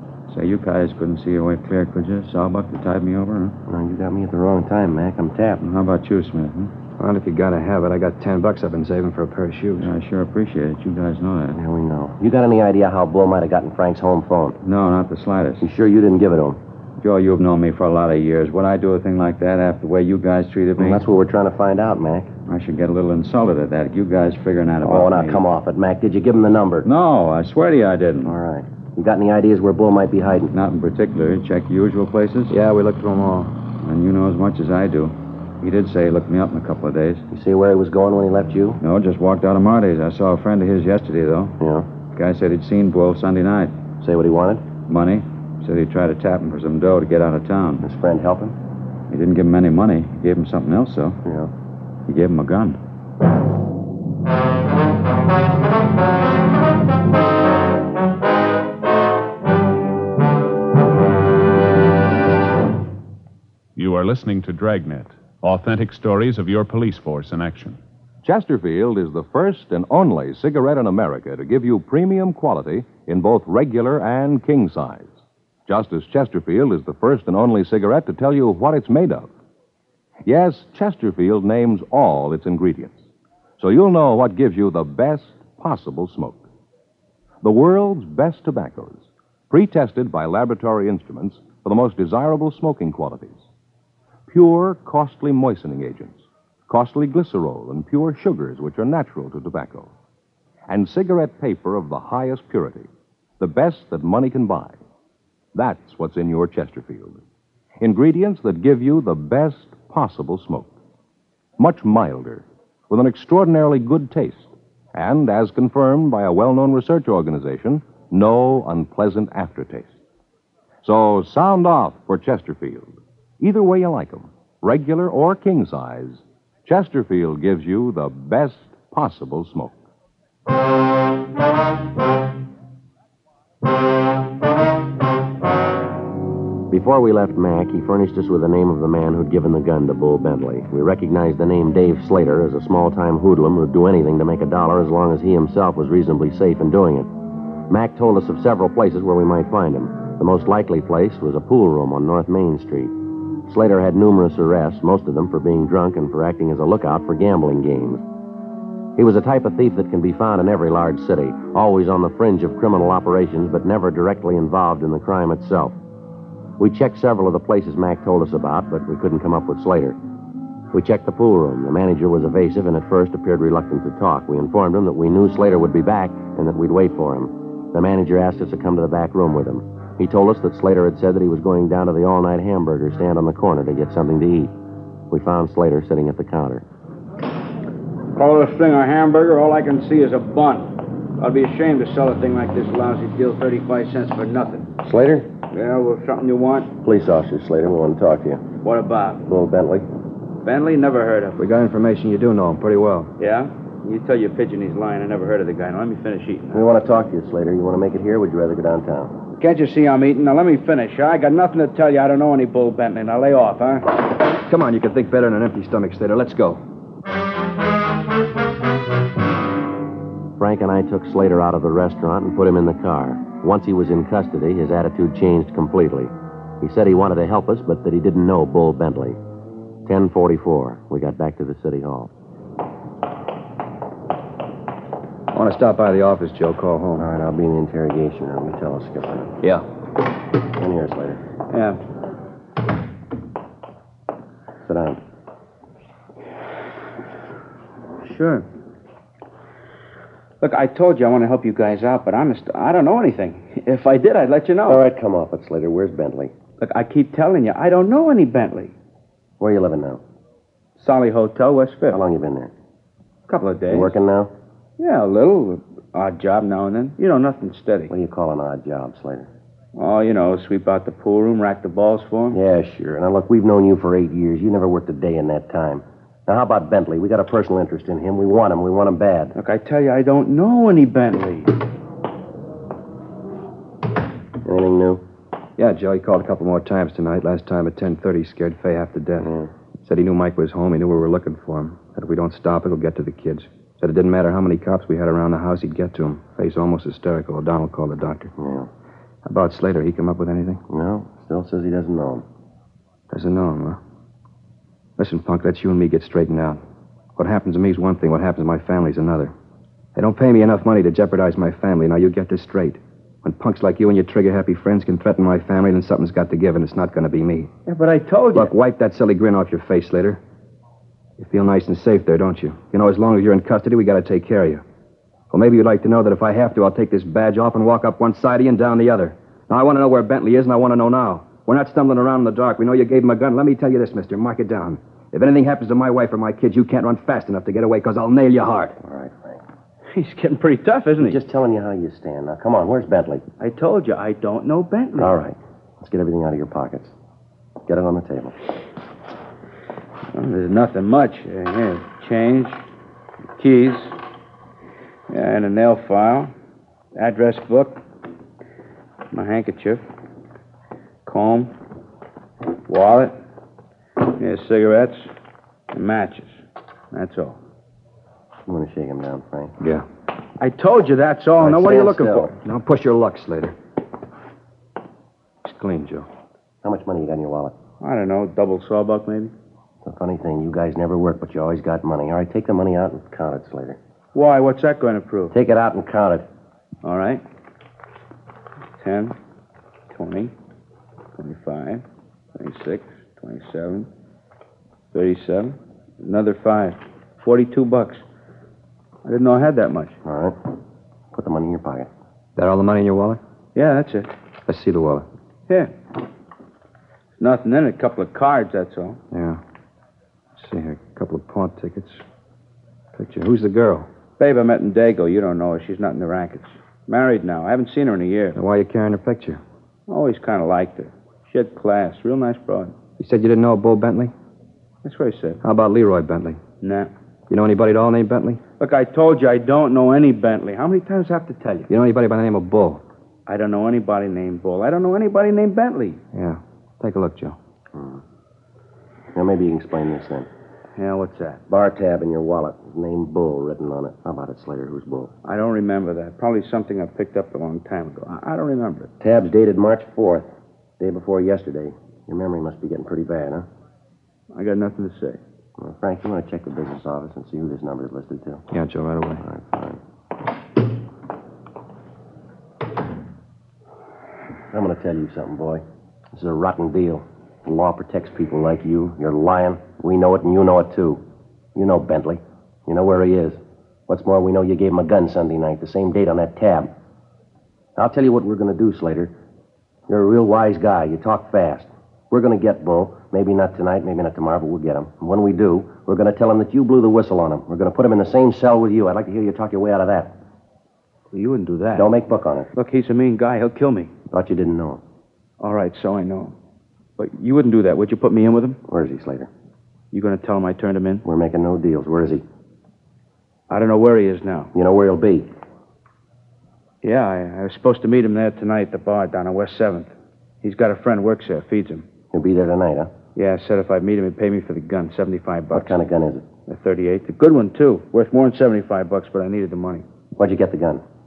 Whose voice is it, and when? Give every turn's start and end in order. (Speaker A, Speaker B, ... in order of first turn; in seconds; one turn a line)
Speaker A: 0.3-3.5
Speaker B: 3.7-5.6
Speaker A: 5.6-6.7
Speaker C: 7.0-9.9
Speaker A: 9.8-11.6
Speaker B: 11.5-14.6
Speaker A: 14.6-15.7
Speaker B: 15.6-16.6
Speaker A: 17.0-21.0
Speaker B: 20.8-22.3
Speaker A: 22.5-25.4
Speaker B: 24.8-26.9
Speaker A: 26.8-28.3
Speaker B: 28.2-30.5
Speaker A: 30.5-32.5
Speaker C: 32.5-33.5
Speaker A: 33.8-37.2
Speaker B: 37.3-38.8
Speaker A: 38.8-41.5
Speaker B: 41.6-41.9
Speaker A: 42.1-43.7
Speaker B: 44.0-44.6
Speaker A: 44.9-47.9
Speaker B: 47.8-48.6
Speaker A: 49.1-51.2
Speaker B: 51.2-51.5
Speaker A: 52.1-52.8
Speaker D: 63.8-67.8
Speaker E: 68.2-75.1
Speaker E: 75.7-79.3
Speaker E: 80.2-83.0
Speaker E: 83.6-86.4
Speaker E: 87.4-93.4
Speaker E: 94.3-99.9
Speaker E: 100.7-102.9
Speaker E: 103.4-104.8
Speaker E: 105.5-107.2
Speaker E: 107.8-110.7
Speaker E: 111.6-119.9
Speaker E: 120.8-129.7
Speaker B: 136.7-147.1
Speaker B: 147.7-152.9
Speaker B: 153.4-158.0
Speaker B: 158.9-165.8
Speaker B: 166.6-170.0
Speaker B: 170.7-184.5
Speaker B: 185.1-186.6
Speaker F: 188.1-194.7
Speaker B: 194.8-195.3
Speaker F: 195.5-196.7
Speaker B: 196.8-198.4
Speaker F: 198.6-199.2
Speaker B: 199.3-199.9
Speaker F: 200.4-201.4
Speaker C: 201.4-203.1
Speaker F: 203.2-206.7
Speaker B: 206.5-209.1
Speaker F: 209.4-213.9
Speaker C: 214.4-216.6
Speaker B: 220.4-229.2
Speaker B: 229.8-232.1
Speaker C: 235.3-237.1
Speaker B: 237.0-239.3
Speaker B: 240.6-241.2
Speaker F: 241.5-241.8
Speaker B: 244.6-245.0
Speaker F: 248.0-248.4
Speaker F: 250.4-254.8
Speaker B: 254.7-256.3
Speaker F: 256.6-258.7
Speaker B: 259.4-260.0
Speaker F: 260.8-262.0
Speaker B: 261.9-262.5
Speaker F: 263.3-263.9
Speaker B: 263.7-264.3
Speaker F: 264.8-267.9
Speaker B: 267.9-269.3
Speaker F: 269.7-272.4
Speaker B: 272.3-279.4
Speaker F: 279.3-281.5
Speaker B: 284.4-285.0
Speaker C: 285.6-289.3
Speaker B: 289.2-289.5
Speaker C: 289.8-298.3
Speaker B: 298.4-298.7
Speaker C: 299.2-300.6
Speaker B: 300.7-302.2
Speaker C: 303.1-303.8
Speaker C: 305.0-306.6
Speaker C: 307.2-309.3
Speaker C: 309.9-317.5
Speaker F: 317.6-318.5
Speaker C: 318.3-320.2
Speaker C: 321.2-324.6
Speaker C: 325.3-338.8
Speaker B: 338.8-339.4
Speaker F: 339.9-341.2
Speaker B: 341.0-343.2
Speaker F: 343.4-345.2
Speaker B: 345.0-346.9
Speaker B: 347.7-348.3
Speaker F: 350.1-352.6
Speaker F: 353.4-354.0
Speaker F: 355.1-356.3
Speaker F: 356.9-357.8
Speaker F: 359.1-359.8
Speaker F: 361.0-361.5
Speaker F: 362.7-363.2
Speaker F: 364.0-365.1
Speaker F: 365.7-366.4
Speaker F: 366.9-367.4
Speaker B: 368.5-369.5
Speaker C: 369.6-369.8
Speaker F: 370.4-372.3
Speaker B: 371.4-372.3
Speaker C: 372.3-373.5
Speaker C: 375.4-376.1
Speaker B: 376.6-377.5
Speaker F: 377.8-379.3
Speaker B: 379.8-383.8
Speaker F: 384.1-385.4
Speaker B: 385.3-386.3
Speaker F: 386.8-387.2
Speaker F: 388.8-389.2
Speaker F: 389.9-390.3
Speaker F: 391.1-393.9
Speaker F: 394.9-398.0
Speaker F: 399.0-399.9
Speaker B: 400.0-400.4
Speaker B: 401.1-401.9
Speaker C: 402.4-403.2
Speaker F: 403.5-404.1
Speaker C: 404.5-405.1
Speaker F: 405.5-405.7
Speaker F: 407.2-409.0
Speaker C: 409.1-409.4
Speaker C: 410.4-412.0
Speaker C: 412.9-413.9
Speaker F: 414.2-418.4
Speaker C: 418.3-419.4
Speaker F: 419.9-422.7
Speaker C: 423.0-424.1
Speaker F: 424.8-425.4
Speaker C: 425.4-426.4
Speaker F: 426.6-426.9
Speaker C: 427.3-428.4
Speaker F: 428.6-431.7
Speaker C: 431.7-432.8
Speaker F: 433.2-436.0
Speaker C: 436.1-437.4
Speaker B: 437.7-438.0
Speaker B: 439.1-440.3
Speaker F: 440.8-441.4
Speaker B: 441.5-445.1
Speaker F: 445.2-448.9
Speaker B: 449.0-450.3
Speaker B: 450.8-453.5
Speaker F: 454.3-455.2
Speaker B: 455.6-458.4
Speaker C: 458.5-459.2
Speaker B: 459.2-459.8
Speaker B: 464.5-471.0
Speaker B: 471.5-476.7
Speaker B: 477.8-479.1
Speaker B: 479.9-490.1
Speaker F: 491.1-491.9
Speaker B: 491.7-492.5
Speaker F: 492.5-493.9
Speaker B: 494.1-494.8
Speaker F: 495.4-496.3
Speaker F: 497.0-498.6
Speaker B: 498.7-499.3
Speaker F: 499.9-501.0
Speaker B: 501.0-502.2
Speaker F: 503.5-504.5
Speaker B: 504.5-505.3
Speaker F: 506.8-511.9
Speaker B: 512.1-512.9
Speaker F: 513.1-515.8
Speaker B: 515.5-516.2
Speaker F: 516.5-519.8
Speaker B: 520.1-520.8